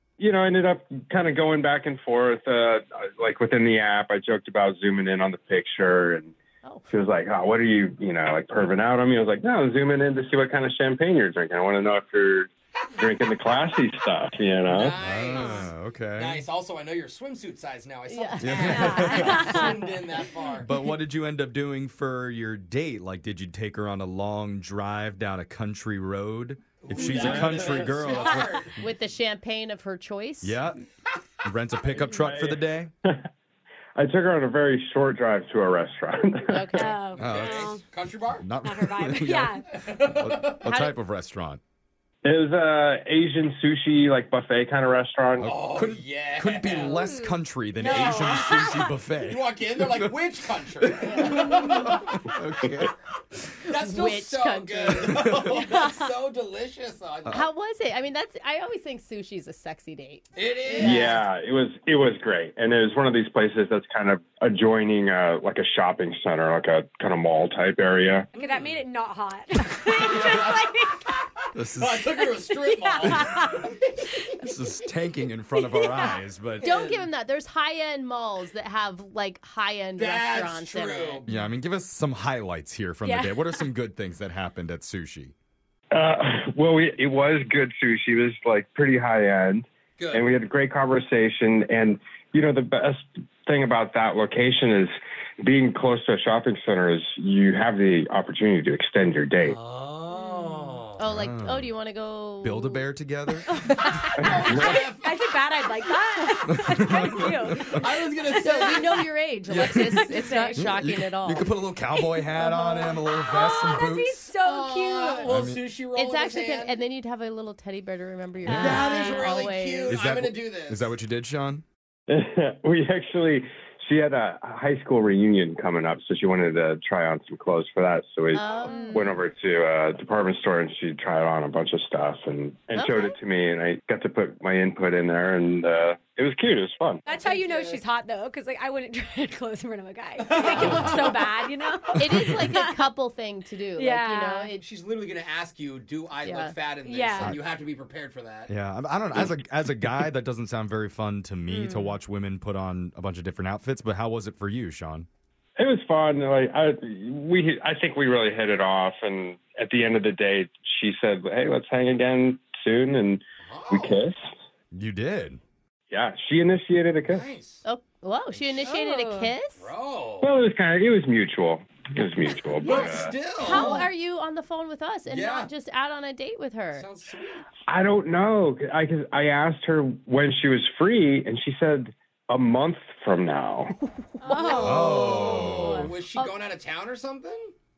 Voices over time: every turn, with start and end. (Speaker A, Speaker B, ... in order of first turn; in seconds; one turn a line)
Speaker A: 0.2-6.3
Speaker B: 6.6-6.9
Speaker A: 6.9-15.0
Speaker C: 12.9-13.3
Speaker C: 14.6-20.7
Speaker D: 15.0-16.4
Speaker B: 18.1-19.7
Speaker D: 18.4-19.7
Speaker E: 18.6-19.6
Speaker D: 20.6-28.7
Speaker C: 26.8-28.7
Speaker A: 27.1-27.9
Speaker B: 28.8-30.6
Speaker D: 30.4-30.8
Speaker D: 31.4-32.9
Speaker A: 31.9-33.2
Speaker A: 34.0-36.9
Speaker B: 36.5-36.9
Speaker E: 36.7-37.8
Speaker C: 37.1-38.5
Speaker D: 37.2-37.6
Speaker D: 38.4-41.6
Speaker E: 38.6-39.6
Speaker C: 39.7-40.7
Speaker B: 40.6-40.9
Speaker A: 42.2-45.6
Speaker D: 45.4-50.1
Speaker C: 45.4-47.0
Speaker E: 47.8-48.9
Speaker C: 47.8-48.6
Speaker C: 49.2-52.0
Speaker D: 50.8-52.9
Speaker B: 51.1-51.5
Speaker C: 53.6-57.5
Speaker B: 53.7-55.3
Speaker D: 55.1-55.5
Speaker B: 57.3-61.1
Speaker C: 60.3-61.2
Speaker A: 60.8-68.3
Speaker E: 68.3-71.1
Speaker C: 68.4-68.8
Speaker C: 69.9-74.0
Speaker D: 71.5-72.4
Speaker E: 72.7-73.5
Speaker D: 73.0-73.4
Speaker D: 74.4-76.7
Speaker E: 75.5-76.2
Speaker B: 76.6-81.2
Speaker C: 76.8-77.1
Speaker C: 80.0-81.4
Speaker D: 81.3-85.3
Speaker E: 83.0-83.7
Speaker A: 85.9-99.6
Speaker C: 90.0-90.4
Speaker C: 99.4-101.0
Speaker E: 100.1-100.8
Speaker B: 101.0-102.8
Speaker D: 101.0-101.7
Speaker D: 102.4-103.6
Speaker E: 103.5-108.8
Speaker B: 103.8-104.0
Speaker A: 104.2-104.8
Speaker C: 104.2-105.9
Speaker D: 106.5-107.8
Speaker C: 107.7-109.1
Speaker B: 108.4-111.5
Speaker D: 109.5-114.3
Speaker E: 109.5-110.7
Speaker E: 111.9-115.5
Speaker C: 114.3-116.8
Speaker D: 115.2-115.7
Speaker B: 115.9-120.0
Speaker D: 118.4-118.9
Speaker C: 118.5-120.9
Speaker E: 118.8-119.3
Speaker D: 119.9-121.6
Speaker A: 122.1-137.0
Speaker B: 128.3-129.2
Speaker E: 128.6-129.2
Speaker B: 132.7-133.1
Speaker E: 137.1-142.8
Speaker C: 137.1-137.8
Speaker C: 140.2-141.3
Speaker D: 140.6-140.9
Speaker B: 142.0-144.6
Speaker E: 143.7-144.5
Speaker C: 144.6-148.5
Speaker B: 146.2-146.6
Speaker E: 146.8-147.4
Speaker D: 148.5-155.1
Speaker E: 151.5-152.0
Speaker A: 155.6-164.1
Speaker C: 163.4-164.0
Speaker D: 164.7-165.4
Speaker A: 165.9-167.3
Speaker C: 167.0-167.6
Speaker B: 167.6-169.7
Speaker C: 168.3-168.8
Speaker E: 168.6-169.3
Speaker C: 169.6-170.3
Speaker A: 170.2-173.2
Speaker C: 172.6-173.9
Speaker B: 172.6-176.8
Speaker C: 175.1-175.5
Speaker C: 176.7-177.4
Speaker A: 177.7-183.7
Speaker B: 184.2-186.3
Speaker C: 184.2-187.5
Speaker E: 184.3-185.3
Speaker D: 184.5-185.9